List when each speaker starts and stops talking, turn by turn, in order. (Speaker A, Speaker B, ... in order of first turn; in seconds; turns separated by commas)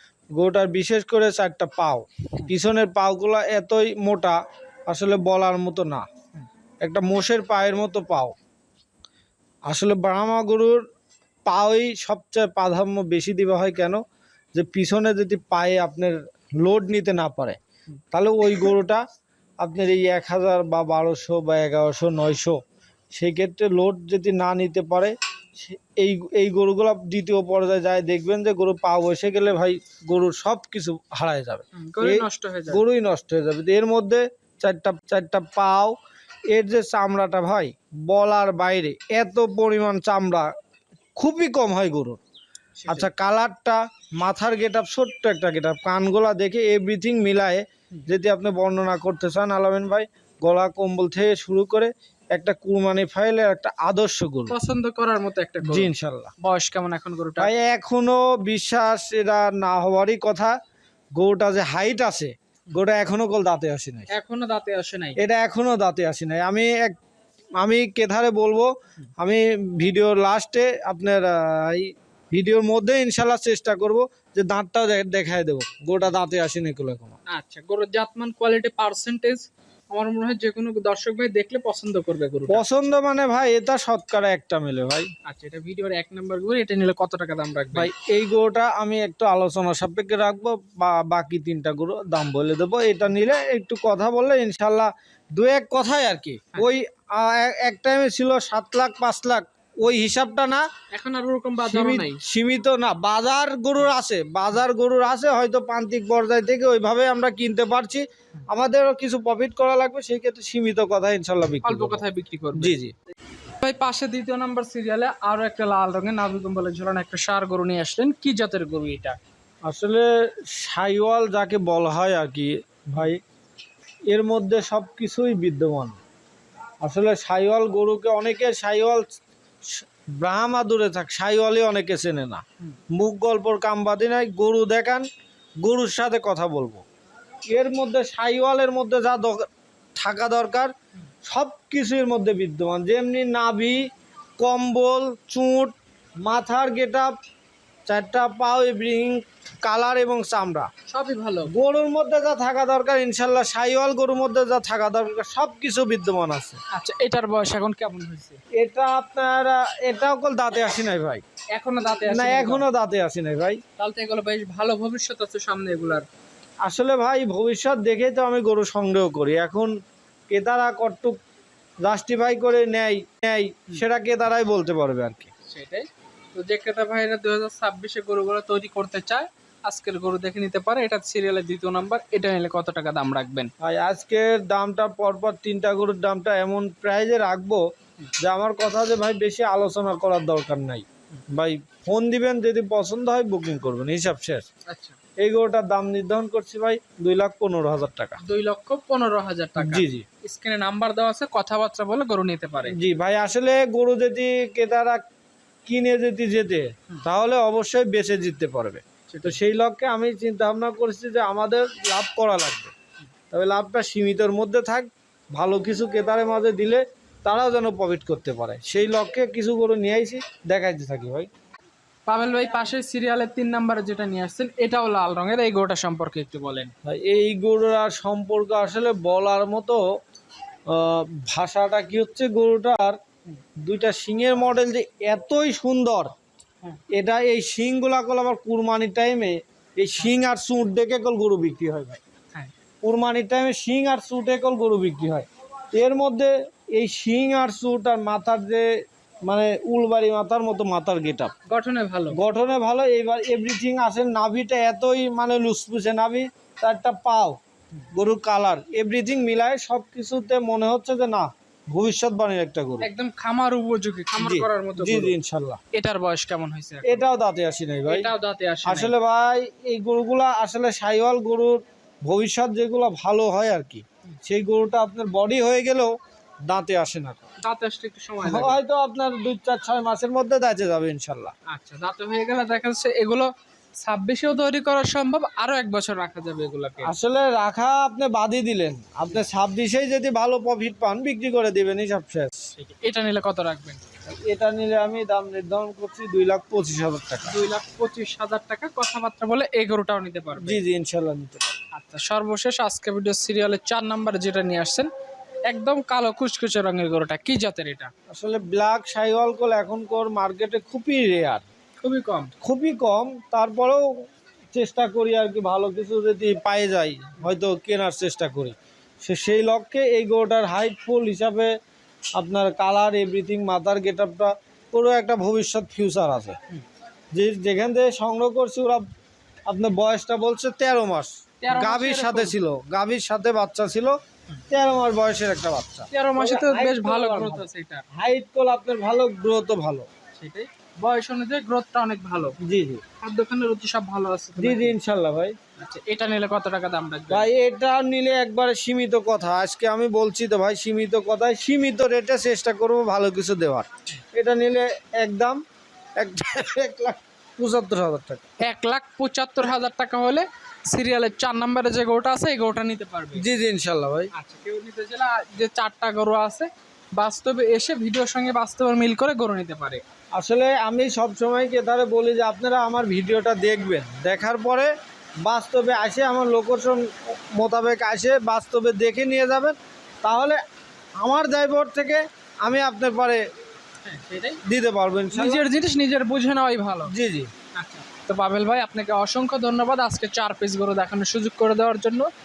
Speaker A: 0.4-6.1, Speaker A: 6.8-8.3, Speaker A: 9.7-10.8, Speaker A: 11.5-14.0, Speaker A: 14.6-17.6, Speaker A: 18.1-19.0, Speaker A: 19.6-22.6, Speaker A: 23.1-35.9, Speaker B: 31.8-32.8, Speaker A: 36.5-40.5, Speaker A: 41.2-42.2, Speaker B: 42.8-43.1, Speaker A: 42.9-54.5, Speaker B: 54.5-57.5, Speaker A: 55.6-56.3, Speaker A: 57.4-60.5, Speaker A: 61.2-64.1, Speaker B: 64.1-65.2, Speaker A: 65.2-67.0, Speaker A: 67.6-77.2, Speaker B: 77.3-82.7, Speaker A: 82.5-85.1, Speaker B: 85.3-87.9, Speaker A: 87.7-100.7, Speaker B: 100.9-102.2, Speaker A: 101.7-112.0, Speaker B: 111.6-112.8, Speaker A: 112.5-112.9, Speaker B: 113.6-119.2, Speaker A: 119.7-123.2, Speaker A: 124.1-126.0, Speaker A: 126.8-129.1, Speaker A: 129.7-135.1, Speaker A: 135.6-136.8, Speaker A: 137.5-140.7, Speaker A: 141.2-143.8, Speaker A: 144.4-145.7, Speaker A: 146.2-147.1, Speaker A: 147.9-150.7, Speaker B: 150.9-151.5, Speaker A: 151.5-156.6, Speaker B: 156.7-158.4, Speaker A: 158.6-161.2, Speaker B: 161.5-162.7, Speaker A: 162.1-163.6, Speaker B: 163.8-166.1, Speaker A: 166.6-169.7, Speaker A: 170.3-171.2, Speaker A: 171.8-175.3, Speaker B: 175.5-183.5, Speaker A: 183.6-187.6, Speaker A: 188.2-194.4, Speaker B: 194.7-195.0, Speaker A: 195.2-198.2, Speaker B: 198.2-202.8, Speaker A: 199.6-200.1, Speaker A: 202.7-205.0, Speaker A: 205.7-212.7, Speaker B: 209.1-209.4, Speaker A: 213.3-221.3, Speaker B: 222.1-226.7, Speaker A: 226.8-229.8, Speaker A: 230.7-233.0, Speaker A: 233.6-236.1, Speaker A: 236.9-242.0, Speaker A: 242.8-248.7, Speaker A: 249.2-251.3, Speaker B: 251.5-252.2, Speaker A: 252.1-257.4, Speaker A: 257.9-262.9, Speaker B: 262.8-265.1, Speaker A: 264.2-265.6, Speaker B: 265.7-267.0, Speaker A: 266.9-268.1, Speaker B: 267.9-268.9, Speaker A: 268.6-275.9, Speaker A: 276.4-277.3, Speaker B: 277.4-278.6, Speaker A: 278.2-281.3, Speaker B: 281.5-286.9, Speaker A: 286.8-292.5, Speaker B: 292.6-293.9, Speaker A: 294.1-297.4, Speaker B: 297.2-300.6, Speaker A: 300.4-301.7, Speaker B: 301.7-304.9, Speaker B: 305.5-307.9, Speaker A: 308.1-311.5, Speaker B: 311.8-312.3, Speaker A: 312.4-313.9, Speaker A: 314.5-321.5, Speaker A: 322.2-326.4, Speaker A: 327.1-328.9, Speaker A: 329.5-334.0, Speaker B: 331.4-332.4, Speaker A: 334.5-339.9, Speaker B: 335.9-337.8, Speaker B: 340.1-342.4, Speaker A: 342.4-342.8, Speaker B: 343.0-344.8, Speaker A: 344.4-345.4, Speaker B: 345.6-347.3, Speaker A: 347.1-355.4, Speaker A: 356.0-358.2, Speaker B: 358.4-363.2, Speaker A: 363.1-364.1, Speaker B: 364.1-369.8, Speaker A: 370.1-374.7, Speaker A: 375.2-380.4, Speaker A: 381.0-383.2, Speaker B: 383.8-384.4, Speaker A: 384.4-385.4, Speaker B: 385.1-386.9, Speaker A: 386.9-387.3, Speaker B: 387.5-392.1